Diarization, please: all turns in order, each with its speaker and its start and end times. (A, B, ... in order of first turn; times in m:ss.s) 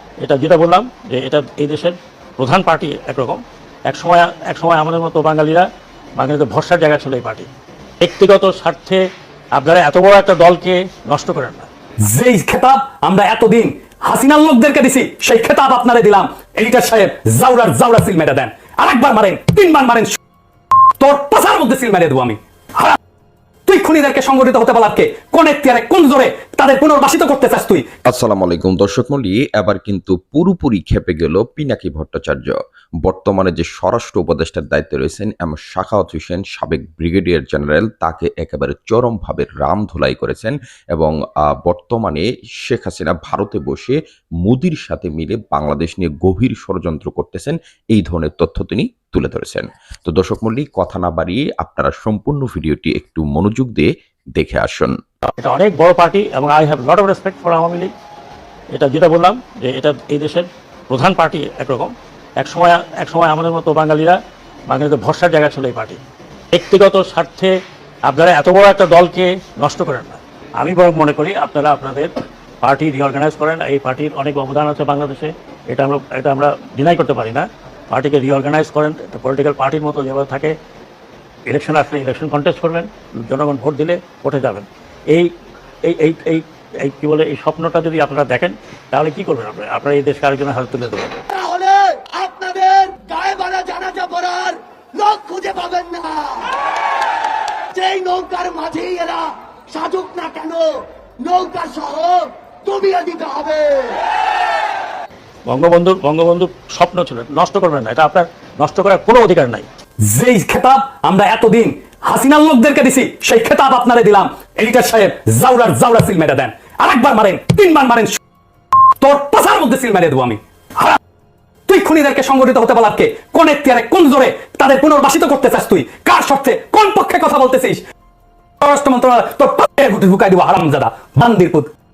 0:00.2-0:07.5 A
0:08.0-0:11.7 A
0:12.1-0:20.2 B
0:21.0-0:23.0 B
0:23.7-0:27.9 B
0:28.1-0:54.9 C
0:55.4-0:57.9 A
0:58.7-1:06.0 A
1:06.5-1:07.5 A
1:08.0-1:20.6 A
1:21.5-1:25.3 A
1:25.8-1:31.1 A
1:31.3-1:36.6 D
1:37.8-1:44.0 D
1:45.5-1:49.7 A
1:50.1-1:58.2 B
1:59.0-2:01.0 B
2:01.7-2:07.8 B
2:08.6-2:11.7 B